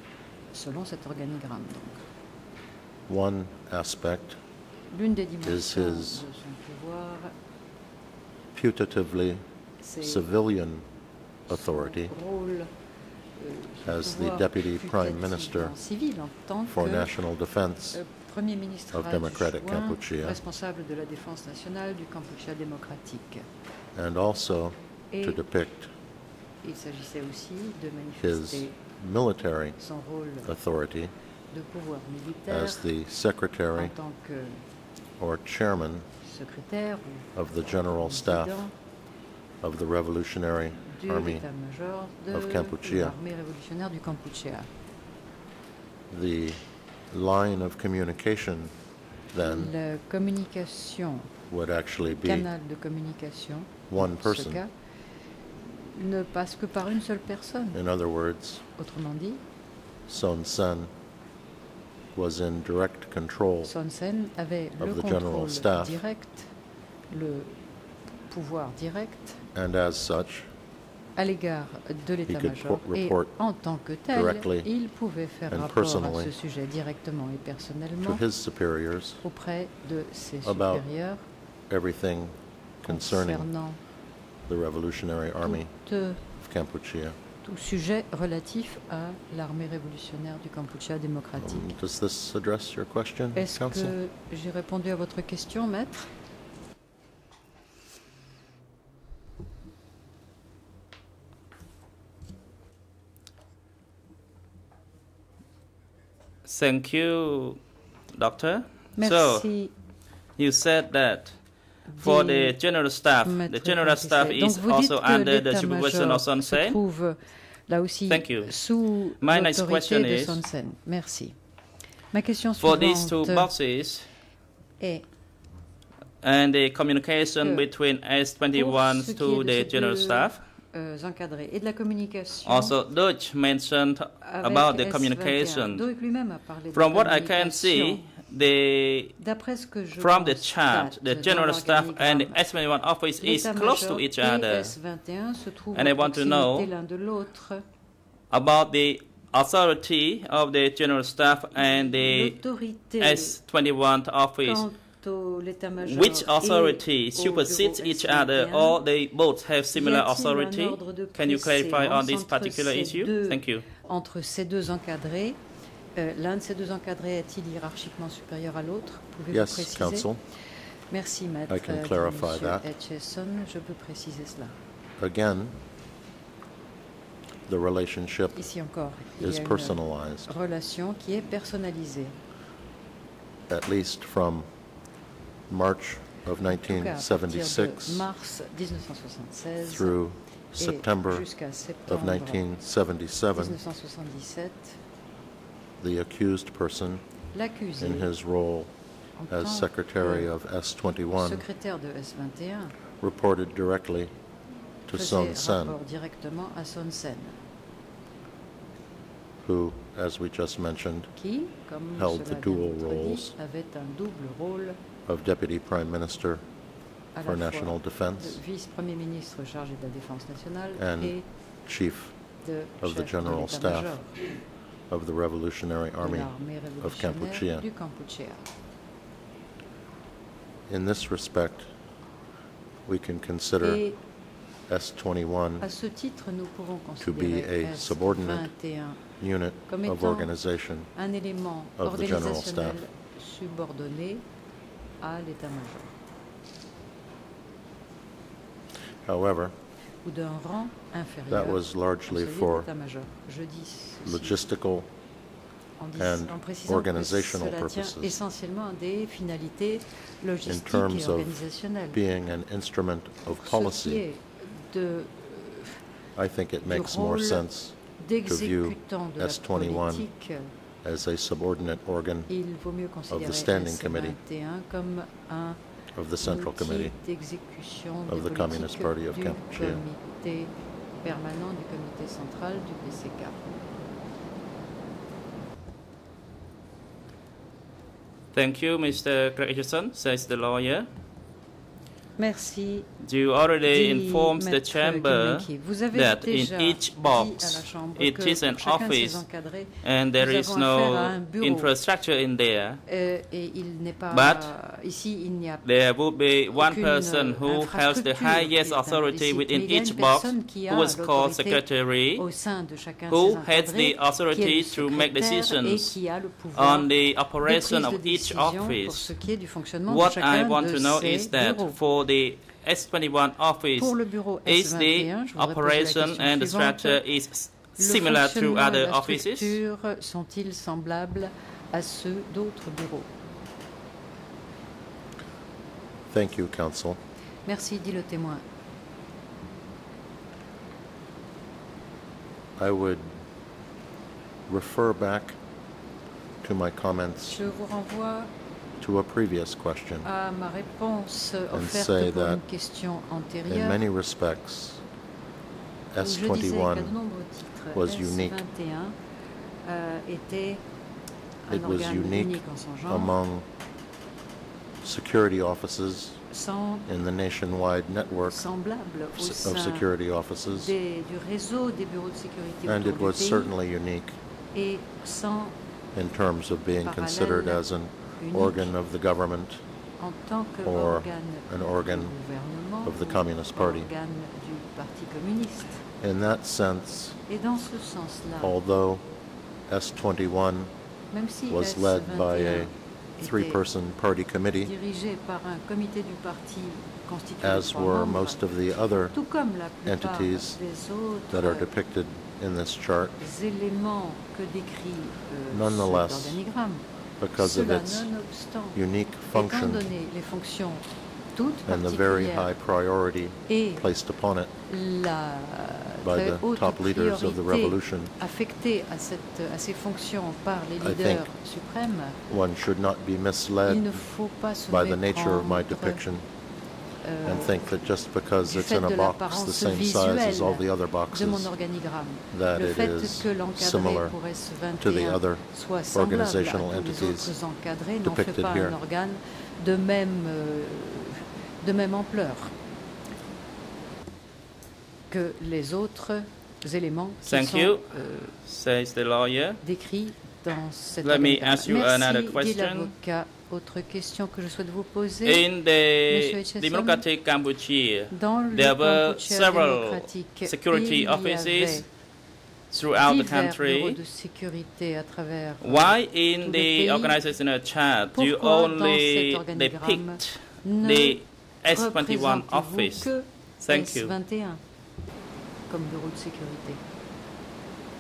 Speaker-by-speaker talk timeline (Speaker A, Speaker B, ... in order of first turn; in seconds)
Speaker A: 0.5-2.0, 4.9-7.3, 9.8-10.3, 11.5-12.7, 13.4-17.1, 17.9-23.5, 25.1-25.4, 26.6-28.8, 29.8-30.5, 31.5-32.9, 33.7-34.6, 36.2-37.3, 37.9-38.7, 40.9-44.7, 49.4-51.3, 52.2-54.7, 55.6-57.8, 58.8-59.4, 63.6-66.5, 67.1-67.7, 68.3-69.4, 71.2-78.2, 79.2-81.2, 82.9-83.8, 85.4-86.2, 87.4-91.7, 93.3-96.1, 109.0-109.7, 111.9-112.6, 113.2-121.3, 122.1-123.5, 127.4-127.7, 128.5-132.8, 134.2-138.0, 139.2-142.4, 143.2-147.6, 151.5-153.4, 154.4-158.8, 159.7-165.4, 166.0-170.1, 170.9-174.5, 178.3-182.2, 186.4-190.0, 190.6-192.4, 193.3-194.8, 197.3-198.1, 199.2-200.3, 201.2-202.8, 204.9-207.4, 211.2-214.8, 217.1-221.2, 222.4-224.1, 226.0-228.4, 233.6-234.0, 235.6-239.0, 239.7-240.3, 240.9-244.2, 245.0-245.9, 250.0-254.5, 255.8-262.0, 263.3-265.8, 266.6-267.5, 268.0-270.5, 272.3-275.6, 276.2-283.5, 292.2-292.9, 293.7-301.7, 302.9-305.6, 306.5-311.6, 312.2-316.9, 317.4-321.8, 323.8-327.0, 327.8-333.1, 337.5-338.4, 347.3-348.3, 350.0-353.8, 356.0-358.9, 359.6-360.6, 361.5-363.1, 366.3-366.9, 368.2-369.9, 370.5-373.5, 374.5-375.6, 376.8-377.6, 378.2-378.7, 380.0-385.9, 387.3-388.6, 391.1-393.6, 394.6-398.4, 399.1-401.7, 403.2-406.9, 407.4-408.8, 409.3-412.5, 413.5-413.8, 414.7-422.2, 423.7-426.0, 427.0-427.6, 428.5-442.5, 445.1-448.3, 449.6-455.5, 456.1-457.0, 458.1-461.9, 463.0-467.2, 468.1-474.6, 475.7-476.8
Speaker B: 3.1-4.4, 5.4-6.3, 8.5-9.4, 10.0-10.9, 11.5-12.1, 13.8-15.8, 16.7-18.0, 18.9-20.4, 23.9-25.9, 28.2-29.8, 30.4-31.1, 32.5-34.0, 35.2-36.1, 37.4-38.6, 39.6-41.5, 42.3-43.2, 46.1-48.8, 49.3-49.7, 51.5-52.5, 53.9-54.6, 57.7-58.6, 60.1-60.9, 62.1-63.7, 64.8-66.0, 69.5-70.5, 72.3-73.3, 74.1-74.7, 75.5-76.3, 78.0-79.2, 80.4-80.8, 81.7-83.5, 84.5-85.7, 86.3-87.2, 91.4-94.0, 169.3-170.2, 171.5-172.7, 175.0-175.6, 177.5-178.4, 179.2-180.3, 183.5-184.5, 185.5-188.1, 189.6-191.3, 191.9-193.6, 195.8-197.0, 197.8-198.7, 199.3-201.5, 203.0-204.1, 204.9-205.8, 209.4-211.1, 212.0-213.3, 215.1-216.4, 217.2-218.4, 220.8-222.2, 222.8-223.9, 224.9-227.7, 230.7-231.7, 232.9-233.8, 234.7-235.7, 237.0-238.5, 239.2-240.9, 241.8-242.8, 249.1-249.6, 251.3-252.7, 254.0-254.9, 256.0-258.2, 260.5-264.0, 266.1-270.1, 270.8-272.3, 273.1-274.2, 275.9-276.9, 278.1-279.8, 336.1-337.0, 342.6-343.2, 344.5-345.4, 346.4-347.5, 348.8-350.1, 351.5-352.4, 353.5-354.8, 355.9-356.9, 357.7-358.4, 361.5-363.5, 364.8-366.2, 366.9-368.4, 369.2-370.8, 372.6-374.2, 375.9-379.6, 380.6-382.1, 382.8-383.9, 386.0-387.2, 388.4-389.1, 389.7-390.7, 391.5-394.7, 397.4-399.2, 399.9-400.6, 401.3-403.2, 405.5-406.4, 407.2-408.1, 408.8-409.9, 411.7-414.5, 416.0-418.1, 420.8-421.3, 422.3-424.1, 424.7-426.3, 427.2-431.5, 432.3-434.2, 434.8-437.3, 438.0-438.8
Speaker C: 106.5-107.6, 108.1-109.5, 110.4-116.8, 118.1-118.5, 119.2-120.4, 122.6-124.1, 126.2-130.4, 132.5-135.8, 136.7-139.2, 140.0-144.8, 145.8-146.7, 148.3-152.4, 153.0-154.7, 155.8-163.7, 288.3-290.9, 293.0-299.2, 299.8-302.8, 304.1-304.5, 305.6-312.2, 313.1-316.0, 316.6-319.1, 319.9-329.6, 447.2-447.9, 448.4-449.6, 451.0-452.9, 455.3-461.9, 462.7-464.0, 465.6-474.1